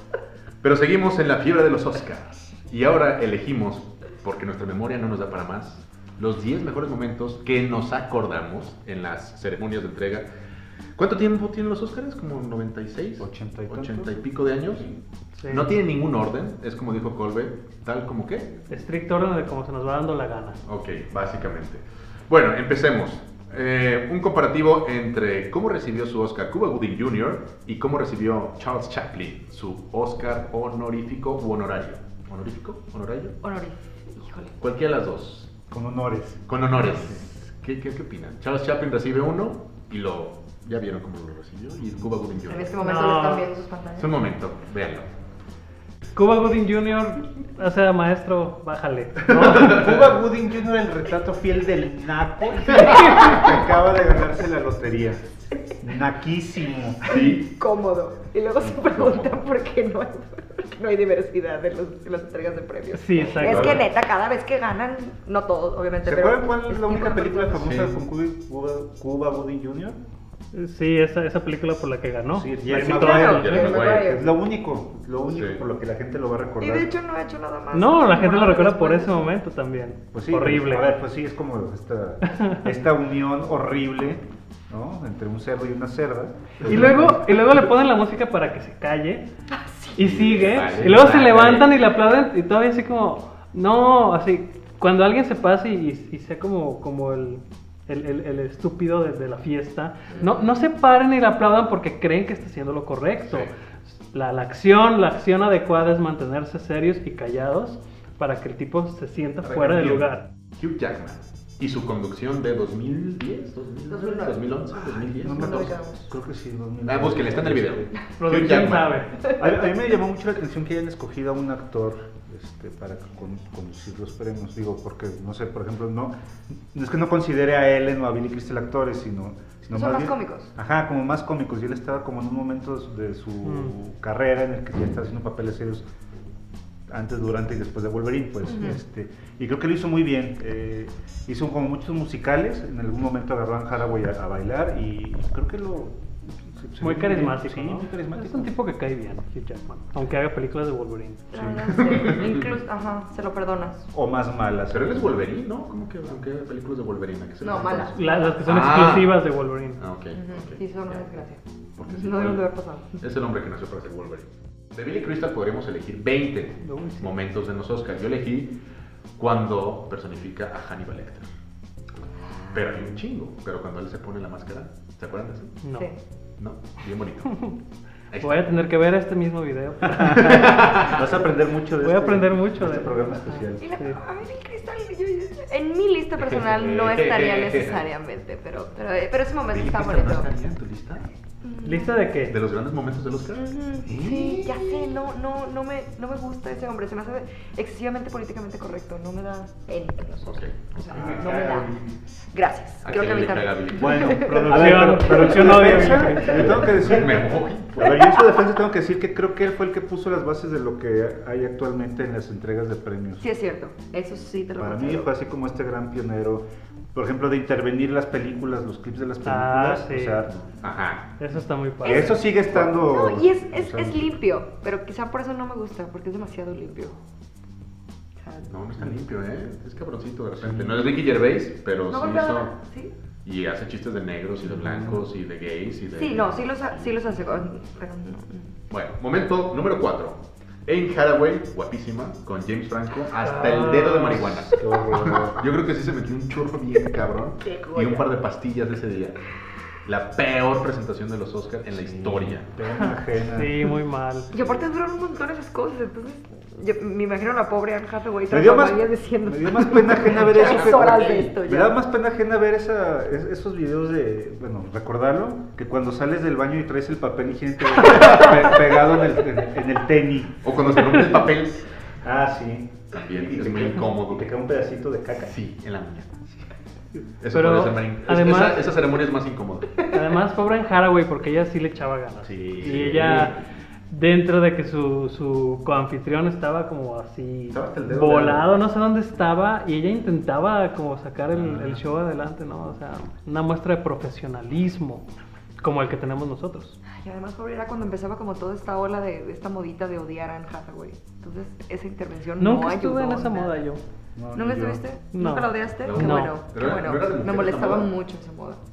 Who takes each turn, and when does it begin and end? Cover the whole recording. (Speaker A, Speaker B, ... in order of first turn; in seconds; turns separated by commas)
Speaker A: 0.6-10.2, Speaker A: 11.0-15.0, Speaker B: 13.2-14.1, Speaker C: 15.4-15.7, Speaker A: 15.5-18.6, Speaker C: 18.7-20.6, Speaker A: 20.7-33.3, Speaker D: 33.4-34.5, Speaker A: 34.6-35.6, Speaker B: 35.7-37.2, Speaker A: 36.5-42.9, Speaker D: 42.4-44.1, Speaker C: 42.8-43.5, Speaker A: 44.0-45.1, Speaker C: 46.1-49.7, Speaker B: 49.3-55.2, Speaker A: 49.4-50.1, Speaker D: 52.7-53.3, Speaker A: 52.7-53.6, Speaker B: 55.8-57.3, Speaker A: 57.1-57.5, Speaker D: 57.1-67.6, Speaker A: 58.6-59.3, Speaker C: 62.9-63.9, Speaker A: 63.1-63.9, Speaker B: 66.0-70.0, Speaker A: 67.5-68.0, Speaker C: 70.5-73.6, Speaker B: 72.3-76.9, Speaker D: 72.8-74.3, Speaker A: 73.4-74.1, Speaker A: 75.3-75.6, Speaker D: 76.6-79.3, Speaker C: 77.7-80.9, Speaker B: 80.1-87.3, Speaker C: 82.3-82.5, Speaker C: 86.7-89.3, Speaker D: 89.5-90.0, Speaker C: 90.0-110.2, Speaker A: 90.0-91.7, Speaker D: 100.1-100.4, Speaker A: 109.4-115.8, Speaker D: 113.9-116.1, Speaker B: 115.2-117.9, Speaker A: 116.8-119.0, Speaker C: 118.2-119.1, Speaker D: 119.2-119.5, Speaker B: 119.3-135.8, Speaker D: 129.7-130.5, Speaker C: 133.4-133.7, Speaker B: 136.9-148.5, Speaker D: 138.4-138.8, Speaker C: 146.8-151.2, Speaker D: 151.3-153.9, Speaker B: 151.3-151.9, Speaker A: 151.8-152.4, Speaker B: 153.9-155.2, Speaker A: 154.7-159.2, Speaker D: 157.4-158.6, Speaker C: 157.9-159.8, Speaker A: 159.8-161.1, Speaker D: 160.1-163.0, Speaker A: 161.8-162.5, Speaker A: 163.0-168.6, Speaker C: 166.6-167.1, Speaker A: 169.2-171.2, Speaker A: 172.5-175.6, Speaker C: 175.6-175.9, Speaker D: 175.7-176.0, Speaker A: 176.4-177.4, Speaker A: 178.1-178.5, Speaker C: 178.2-181.1, Speaker B: 180.1-183.8, Speaker A: 180.2-181.0, Speaker C: 181.8-184.0, Speaker D: 183.6-190.3, Speaker A: 186.2-187.8, Speaker A: 189.5-191.1, Speaker D: 191.4-192.0, Speaker C: 191.6-192.4, Speaker A: 192.3-194.9, Speaker D: 193.3-201.7, Speaker A: 200.2-201.4, Speaker B: 200.9-202.0, Speaker D: 202.3-204.6, Speaker A: 202.8-204.2, Speaker B: 203.7-213.2, Speaker C: 204.2-206.9, Speaker A: 206.6-208.0, Speaker D: 213.2-215.1, Speaker B: 214.6-220.4, Speaker C: 219.2-220.3, Speaker A: 220.5-221.2, Speaker C: 221.2-222.2, Speaker B: 221.8-224.2, Speaker D: 221.8-227.0, Speaker D: 228.2-228.6, Speaker A: 228.5-232.5, Speaker B: 230.4-230.9, Speaker D: 231.9-232.9, Speaker A: 233.2-237.1, Speaker B: 234.5-235.0, Speaker D: 235.9-238.5, Speaker A: 238.7-249.2, Speaker C: 243.2-244.4, Speaker B: 244.2-245.4, Speaker D: 247.4-248.2, Speaker A: 249.8-252.5, Speaker B: 251.7-253.7, Speaker C: 252.8-254.3, Speaker D: 254.3-261.7, Speaker B: 258.3-271.1, Speaker A: 260.2-261.3, Speaker A: 268.0-268.4, Speaker A: 270.4-271.7, Speaker B: 272.0-275.3, Speaker A: 272.9-274.3, Speaker A: 275.2-276.2, Speaker A: 277.2-279.8, Speaker C: 277.3-278.8, Speaker C: 279.8-283.4, Speaker A: 282.2-283.3, Speaker B: 282.6-283.2, Speaker C: 283.9-295.1, Speaker A: 287.5-288.5, Speaker B: 291.4-291.8, Speaker C: 295.6-296.8, Speaker D: 296.9-303.6, Speaker C: 302.4-303.8, Speaker B: 304.1-304.8, Speaker D: 304.3-308.6, Speaker C: 305.1-306.4, Speaker A: 305.8-307.9